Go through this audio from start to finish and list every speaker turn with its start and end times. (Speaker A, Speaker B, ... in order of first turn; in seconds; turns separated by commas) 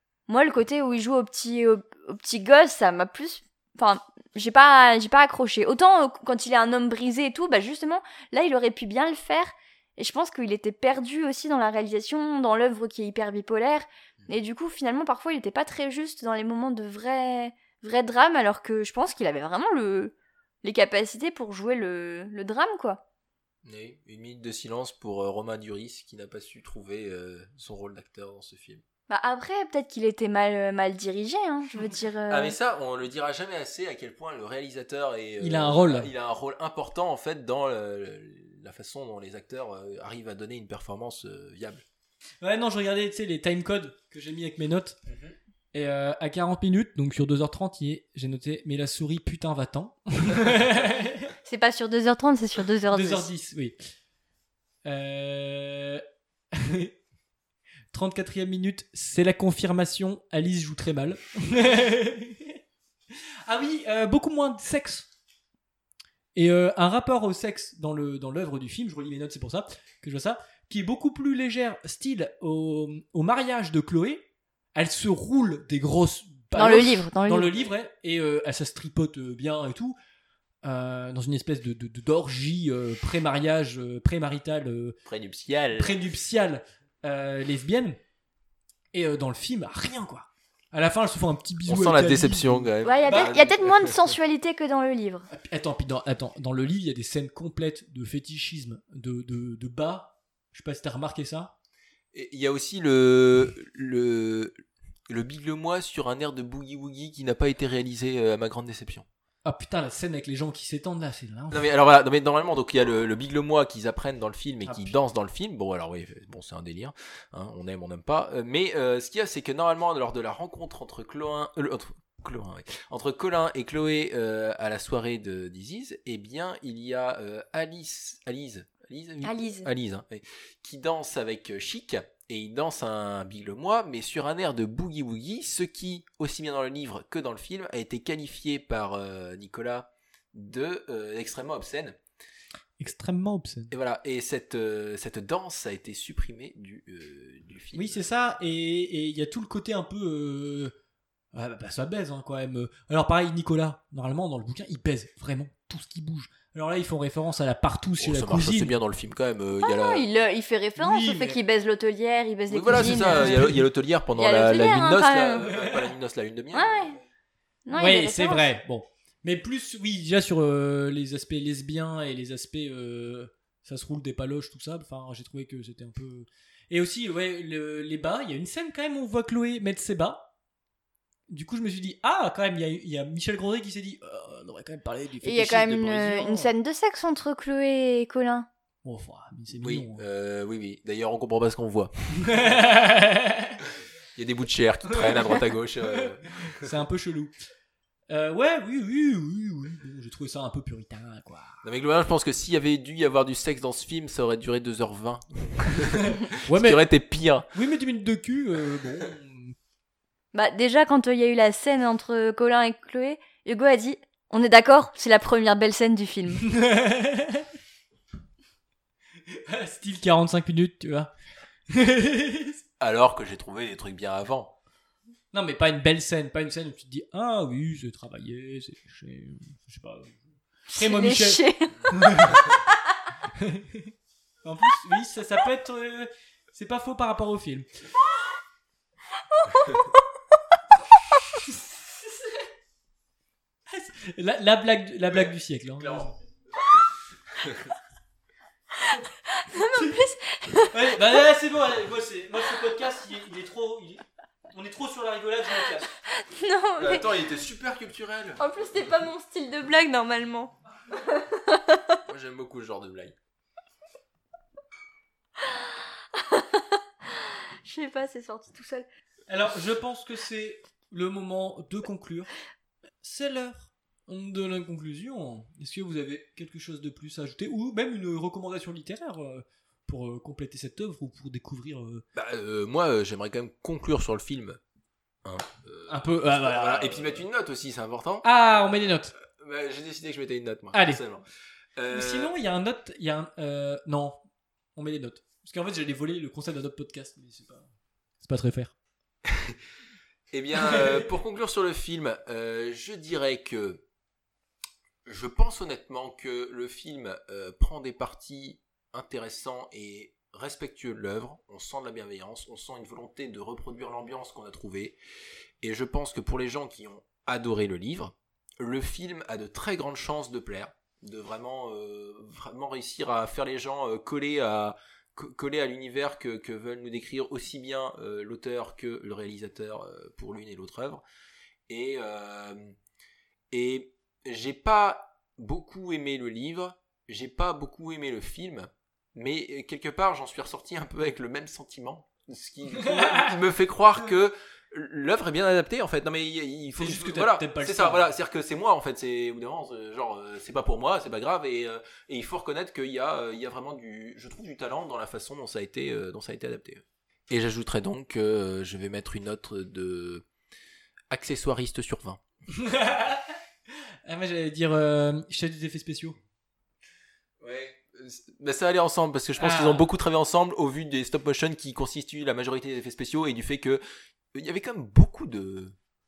Speaker A: 0.3-23.0, Speaker B: 23.6-28.8, Speaker A: 29.1-32.5, Speaker B: 32.3-41.8, Speaker C: 35.4-36.1, Speaker C: 42.4-45.0, Speaker B: 45.1-45.3, Speaker C: 45.7-51.3, Speaker A: 51.5-53.3, Speaker C: 52.9-53.8, Speaker C: 54.8-56.9, Speaker C: 57.9-62.6, Speaker C: 63.5-65.1, Speaker C: 66.3-80.0, Speaker A: 76.5-77.5, Speaker C: 80.6-85.0, Speaker B: 85.0-85.9, Speaker C: 85.8-88.0, Speaker C: 88.9-93.3, Speaker B: 91.6-94.0, Speaker A: 92.8-95.3, Speaker C: 95.3-101.5, Speaker B: 102.1-104.6, Speaker B: 105.1-109.0, Speaker C: 109.4-111.6, Speaker B: 111.5-142.0, Speaker C: 114.6-115.0, Speaker A: 129.2-129.7, Speaker C: 142.8-143.7, Speaker B: 143.7-148.0, Speaker C: 147.7-150.7, Speaker C: 151.3-158.7, Speaker B: 158.0-160.1, Speaker A: 159.6-163.6, Speaker C: 160.8-161.4, Speaker B: 162.5-167.0, Speaker C: 162.7-163.6, Speaker A: 164.2-165.5, Speaker A: 166.5-167.0, Speaker A: 167.7-168.5, Speaker C: 167.7-180.3, Speaker C: 181.3-186.5, Speaker A: 185.2-188.5, Speaker C: 188.8-190.0, Speaker B: 189.6-192.6, Speaker C: 192.2-193.6, Speaker B: 194.2-196.7, Speaker C: 196.4-197.3, Speaker C: 198.1-201.6, Speaker B: 201.6-207.5, Speaker C: 206.0-206.8, Speaker C: 207.5-209.6, Speaker A: 210.3-216.4, Speaker C: 216.4-217.4, Speaker C: 219.3-221.1, Speaker C: 221.7-222.6, Speaker B: 222.8-224.5, Speaker C: 225.3-232.5, Speaker A: 230.7-232.4, Speaker C: 233.3-233.9, Speaker C: 234.4-237.7, Speaker A: 239.4-239.8, Speaker C: 243.7-246.1, Speaker B: 245.1-246.1, Speaker A: 249.3-250.8, Speaker C: 250.7-255.9, Speaker A: 256.1-257.1, Speaker B: 256.8-258.4, Speaker A: 258.4-261.9, Speaker B: 262.1-263.1, Speaker A: 266.1-268.9, Speaker C: 269.3-272.3, Speaker C: 273.0-282.0, Speaker B: 282.1-284.6, Speaker B: 285.2-288.2, Speaker C: 285.9-287.2, Speaker C: 288.2-289.1, Speaker B: 289.2-291.2, Speaker C: 290.7-291.0, Speaker B: 291.8-292.3, Speaker C: 291.9-294.2, Speaker C: 294.7-297.7, Speaker C: 298.2-298.7, Speaker B: 299.2-299.6, Speaker B: 300.3-303.8, Speaker B: 305.0-315.0, Speaker B: 315.6-331.0, Speaker B: 331.7-332.7, Speaker B: 333.5-360.2, Speaker C: 342.7-343.3, Speaker C: 346.8-348.1, Speaker B: 361.1-362.2, Speaker C: 362.5-363.2, Speaker C: 364.1-366.2, Speaker B: 367.4-373.8, Speaker C: 369.4-369.8, Speaker B: 374.3-375.7